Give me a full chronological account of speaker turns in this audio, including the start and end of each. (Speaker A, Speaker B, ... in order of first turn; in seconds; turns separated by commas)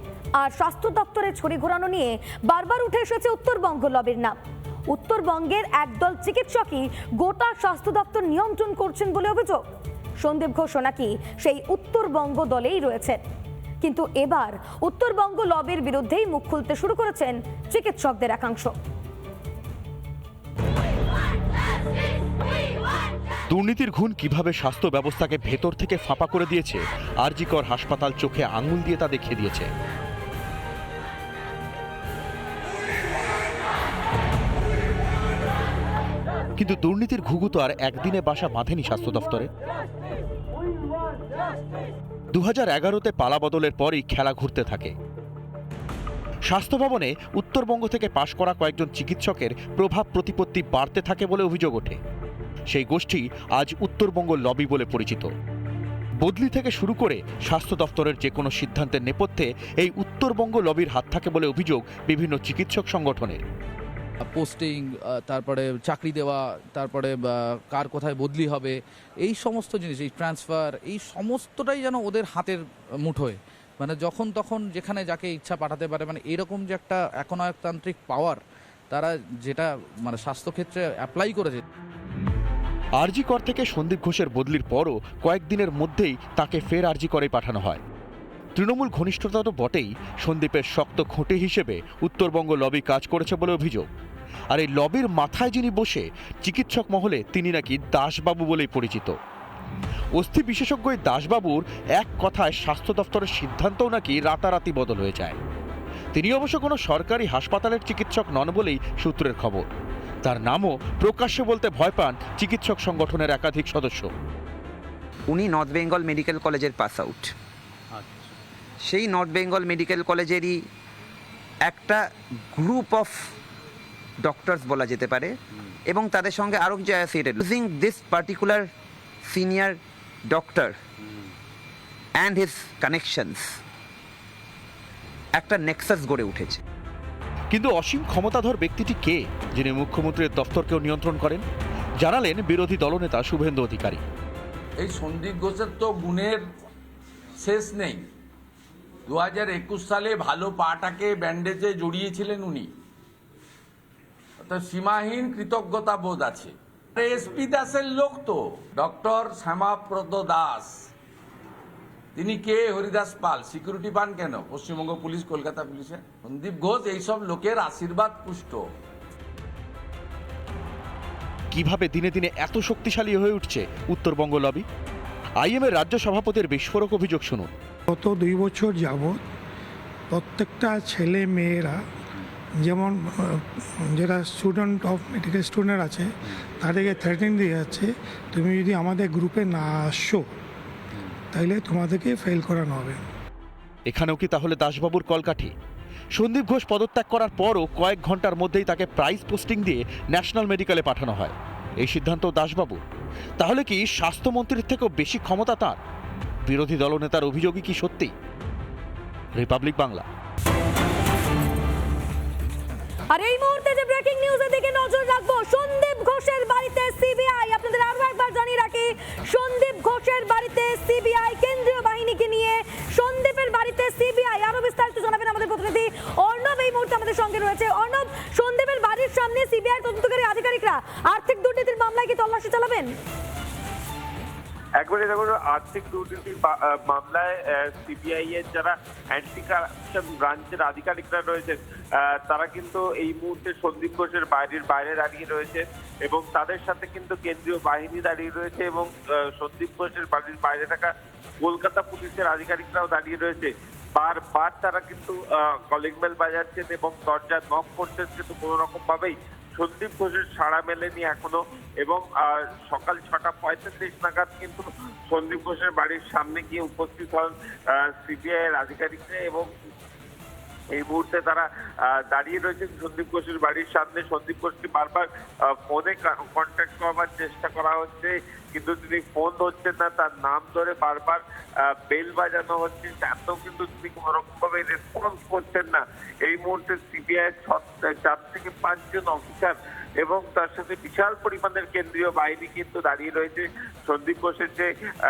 Speaker A: 0.4-4.3, Speaker A: 4.9-9.6, Speaker A: 10.2-13.2, Speaker A: 13.8-18.7, Speaker B: 23.5-29.7, Speaker B: 36.6-39.5, Speaker B: 42.3-44.9, Speaker B: 46.5-52.0, Speaker B: 52.7-55.3, Speaker B: 56.2-63.4, Speaker C: 64.3-81.6, Speaker B: 83.0-87.8, Speaker B: 88.5-93.9, Speaker B: 94.5-99.1, Speaker B: 100.2-105.4, Speaker B: 106.1-109.6, Speaker B: 110.2-114.1, Speaker D: 115.3-117.3, Speaker D: 118.8-120.6, Speaker D: 121.7-123.2, Speaker D: 124.2-125.4, Speaker D: 125.9-128.7, Speaker D: 129.2-129.8, Speaker D: 130.3-130.8, Speaker D: 132.2-133.5, Speaker D: 135.4-136.6, Speaker B: 137.5-141.4, Speaker B: 142.0-144.0, Speaker E: 144.8-146.4, Speaker E: 147.4-148.0, Speaker E: 149.1-152.7, Speaker E: 154.4-160.9, Speaker E: 162.2-168.6, Speaker B: 171.5-174.6, Speaker B: 175.4-177.5, Speaker F: 177.9-179.2, Speaker F: 180.1-181.8, Speaker F: 182.6-190.3, Speaker F: 191.3-193.0, Speaker B: 193.9-195.5, Speaker B: 196.2-202.8, Speaker B: 203.4-205.8, Speaker B: 206.4-208.1, Speaker B: 209.4-210.1, Speaker A: 213.1-232.9, Speaker G: 234.8-241.6, Speaker G: 242.2-250.9, Speaker G: 251.4-269.4, Speaker G: 270.7-271.4, Speaker G: 272.1-275.1, Speaker G: 275.7-281.2, Speaker G: 281.9-294.7